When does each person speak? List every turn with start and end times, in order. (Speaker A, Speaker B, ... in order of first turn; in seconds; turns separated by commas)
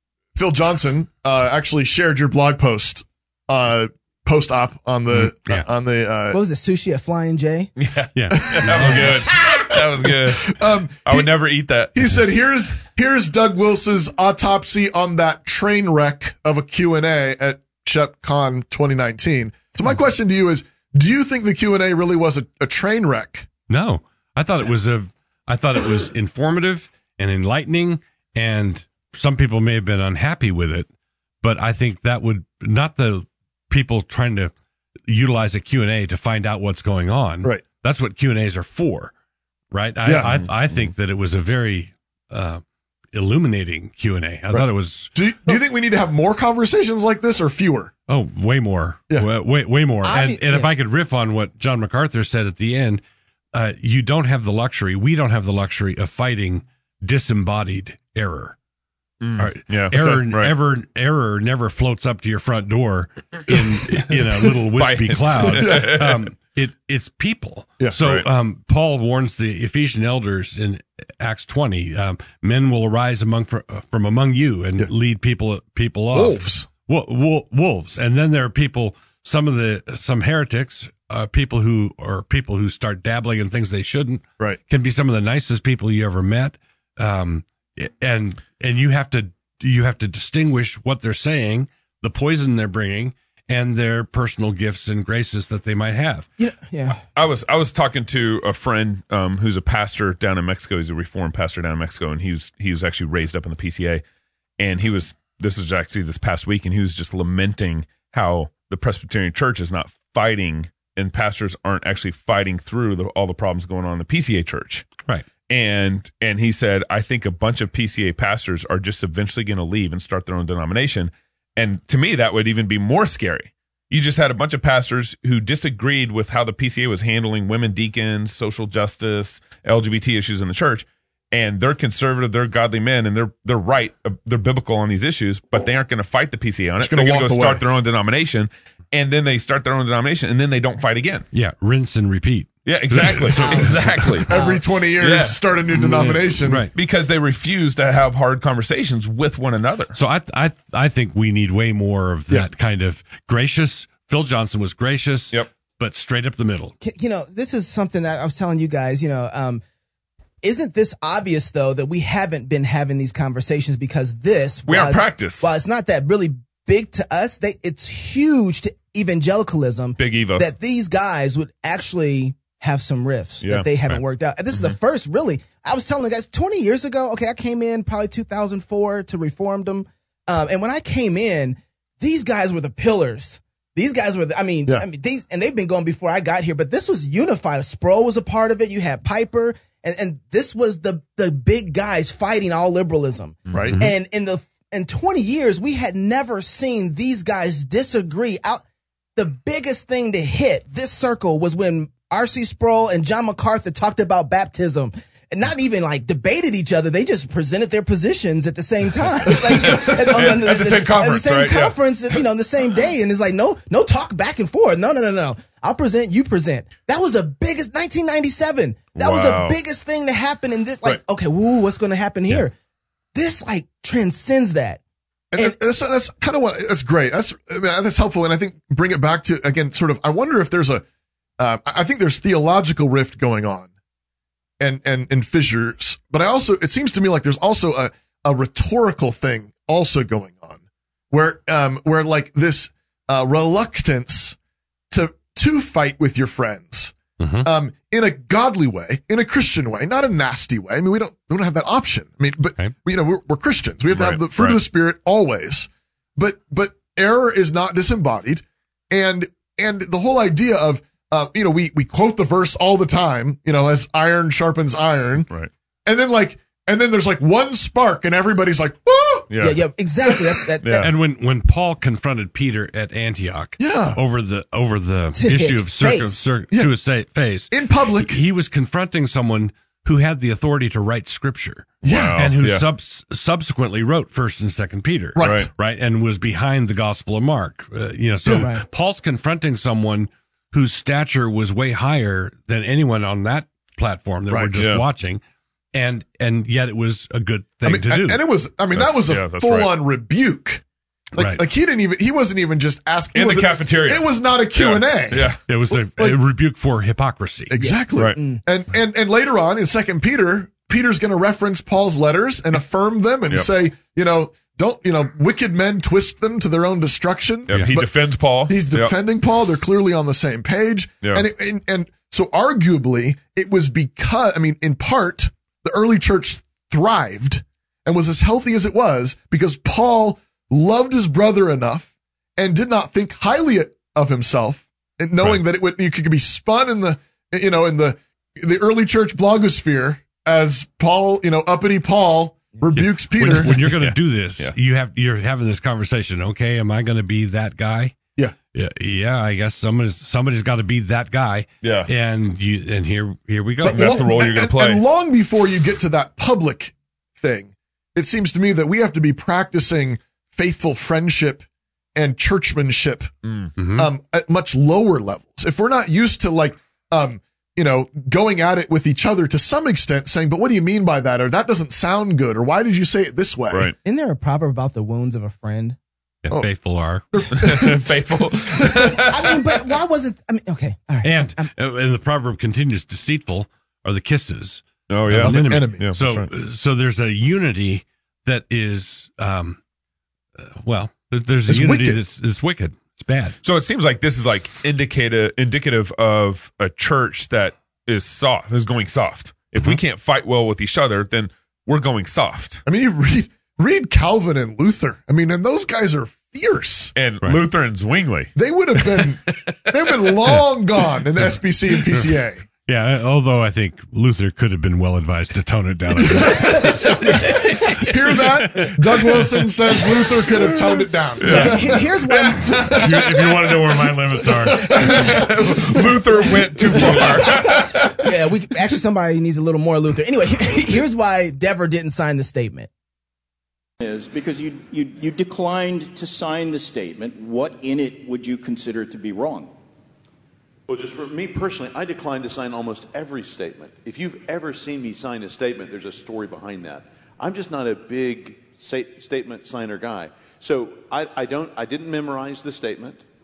Speaker A: 0.3-6.4, Speaker B: 5.1-5.7, Speaker C: 6.3-7.7, Speaker D: 7.8-11.9, Speaker B: 8.1-9.3, Speaker A: 8.4-9.4, Speaker A: 10.4-11.3, Speaker A: 11.9-23.5, Speaker B: 23.7-30.9, Speaker B: 31.4-34.5, Speaker B: 35.1-39.1, Speaker B: 39.7-42.6, Speaker A: 40.0-40.4, Speaker B: 43.1-45.1, Speaker A: 44.5-47.9, Speaker B: 48.1-53.0, Speaker C: 50.0-50.7, Speaker B: 53.5-58.5, Speaker D: 59.2-60.5, Speaker B: 59.4-96.3, Speaker D: 64.7-66.2, Speaker A: 65.6-66.0, Speaker D: 68.0-68.2, Speaker A: 76.1-76.7, Speaker C: 96.4-97.0, Speaker D: 97.1-104.0, Speaker D: 104.6-115.0, Speaker D: 115.5-141.2, Speaker A: 136.8-137.6, Speaker B: 141.3-144.3, Speaker D: 142.7-144.3, Speaker A: 144.3-146.7, Speaker C: 144.3-144.6, Speaker D: 145.0-145.4, Speaker B: 145.7-146.7, Speaker D: 146.7-149.9, Speaker B: 149.9-156.7, Speaker C: 156.8-159.6, Speaker C: 160.4-198.6, Speaker D: 164.7-165.5, Speaker D: 170.0-170.5, Speaker D: 173.4-174.0, Speaker A: 193.5-193.8, Speaker B: 193.7-193.9, Speaker C: 199.2-222.5, Speaker D: 209.4-212.2, Speaker D: 218.9-219.6, Speaker C: 223.1-224.8, Speaker A: 225.3-230.8, Speaker A: 231.4-233.7, Speaker A: 234.6-240.6, Speaker A: 241.1-244.3, Speaker A: 244.9-265.3, Speaker B: 247.2-247.5, Speaker D: 253.9-254.6, Speaker A: 265.9-269.3, Speaker D: 269.3-269.6, Speaker C: 269.4-270.9, Speaker D: 270.6-270.9, Speaker B: 270.8-295.2, Speaker A: 273.6-274.0, Speaker C: 275.1-276.2, Speaker A: 277.5-278.2, Speaker A: 281.8-282.2, Speaker D: 281.8-282.6, Speaker A: 285.1-285.5, Speaker D: 285.2-285.5, Speaker C: 288.4-288.6, Speaker A: 294.3-294.6, Speaker D: 294.6-294.8, Speaker B: 295.7-298.2, Speaker A: 297.6-300.6, Speaker D: 298.7-299.7, Speaker A: 301.1-306.2, Speaker B: 301.2-301.4, Speaker D: 303.1-305.4, Speaker B: 305.5-307.5, Speaker A: 307.5-343.7, Speaker C: 307.6-308.4, Speaker D: 317.5-318.9, Speaker B: 317.5-317.8, Speaker B: 342.7-347.9, Speaker D: 343.6-344.5, Speaker B: 348.5-354.0, Speaker D: 351.6-351.9, Speaker A: 353.6-361.4, Speaker D: 353.7-354.8, Speaker A: 361.9-363.1, Speaker D: 363.2-363.5, Speaker B: 363.6-363.9, Speaker A: 363.7-373.7, Speaker C: 373.8-375.8, Speaker B: 376.2-377.5, Speaker A: 377.1-377.9, Speaker D: 377.3-379.5, Speaker C: 379.0-381.5, Speaker B: 381.0-389.6, Speaker D: 384.9-386.3, Speaker A: 385.1-385.9, Speaker B: 390.4-393.4, Speaker A: 391.5-392.0, Speaker D: 393.4-402.6, Speaker A: 402.6-406.9, Speaker D: 406.9-408.3, Speaker A: 408.3-412.4, Speaker B: 412.6-419.3, Speaker A: 416.0-417.1, Speaker A: 417.8-421.7, Speaker D: 421.2-427.9, Speaker C: 421.2-422.7, Speaker A: 422.5-423.0, Speaker B: 422.7-425.1, Speaker A: 424.5-425.1, Speaker C: 426.7-432.7, Speaker E: 433.8-439.5, Speaker F: 440.7-453.0